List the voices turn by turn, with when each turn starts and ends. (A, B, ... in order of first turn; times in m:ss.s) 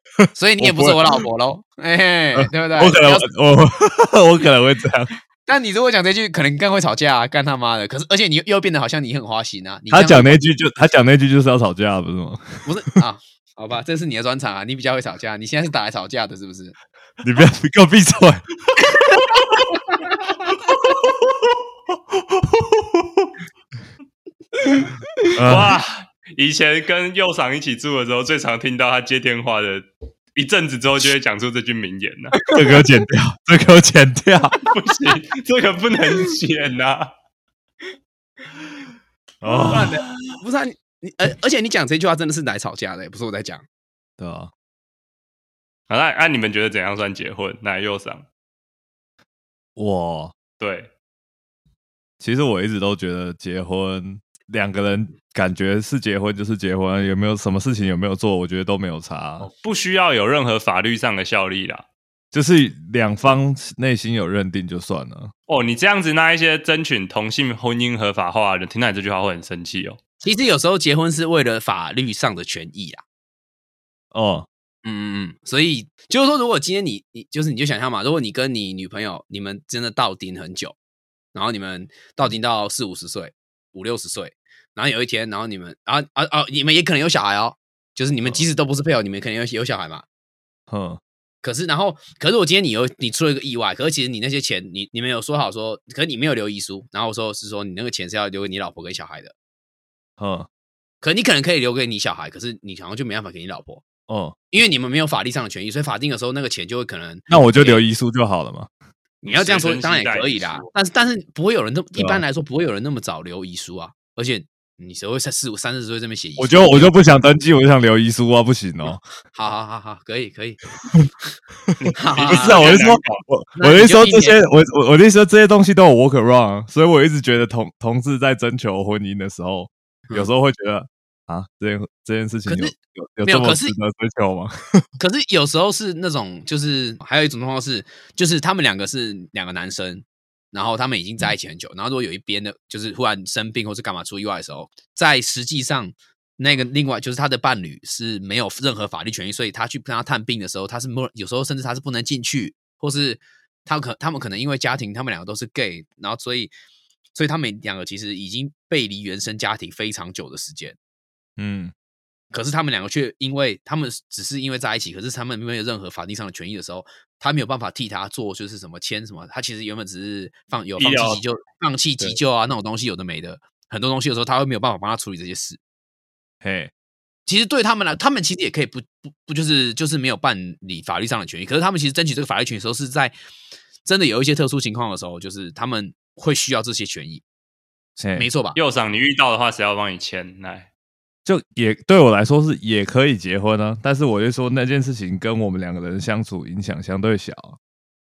0:00.2-0:01.0 A
0:00.3-0:03.3 B
0:02.4-0:05.1 A
0:05.5-0:10.4 B
0:09.9-0:12.7 A
0:12.6-0:16.8 B
0:17.2-0:18.4 A
0:18.9-0:20.5 B
0:24.6-0:24.9 B
0:25.4-0:25.8 A
0:25.4-0:32.4 C
0:32.5-0:34.6 A
0:34.6-0:37.1 C
0:39.4-0:40.0 A
0:39.7-0:43.6 B
0:44.2-0:44.5 A
0:45.9-0:48.3 C
0:49.8-0:50.4 A
0:50.6-0:50.9 C
0:52.2-0:59.5 A
0:59.4-1:01.9 C
1:02.3-1:05.3 A
1:05.5-1:10.0 C
1:10.2-1:13.0 B
1:14.1-1:14.5 A
1:14.8-1:20.8 B
1:21.3-1:30.1 B
1:30.7-1:31.0 A
1:31.4-1:39.3 B
1:40.2-1:40.5 A
1:41.0-1:43.8 B
1:44.1-1:44.4 A
1:44.5-1:47.8 B
1:47.3-1:48.7 A
1:49.2-1:56.9 B
1:49.2-1:50.7 C
1:52.0-1:52.2 A
1:56.4-1:59.0 A
1:59.3-2:00.6 B
2:01.8-2:03.2 C
2:02.0-2:02.8 B
2:02.3-2:14.5 A
2:03.6-2:04.4 B
2:12.5-2:13.7 B
2:15.0-2:36.5 B
2:37.1-2:40.8 B
2:41.4-2:41.7 A
2:42.3-2:55.6 B
2:50.8-2:51.2 C
2:56.4-2:56.7 A
2:57.3-3:03.1 B
3:03.8-3:07.2 B
3:08.0-3:08.3 A
3:08.1-3:08.6 B
3:08.6-3:10.7 C
3:11.3-3:17.6 A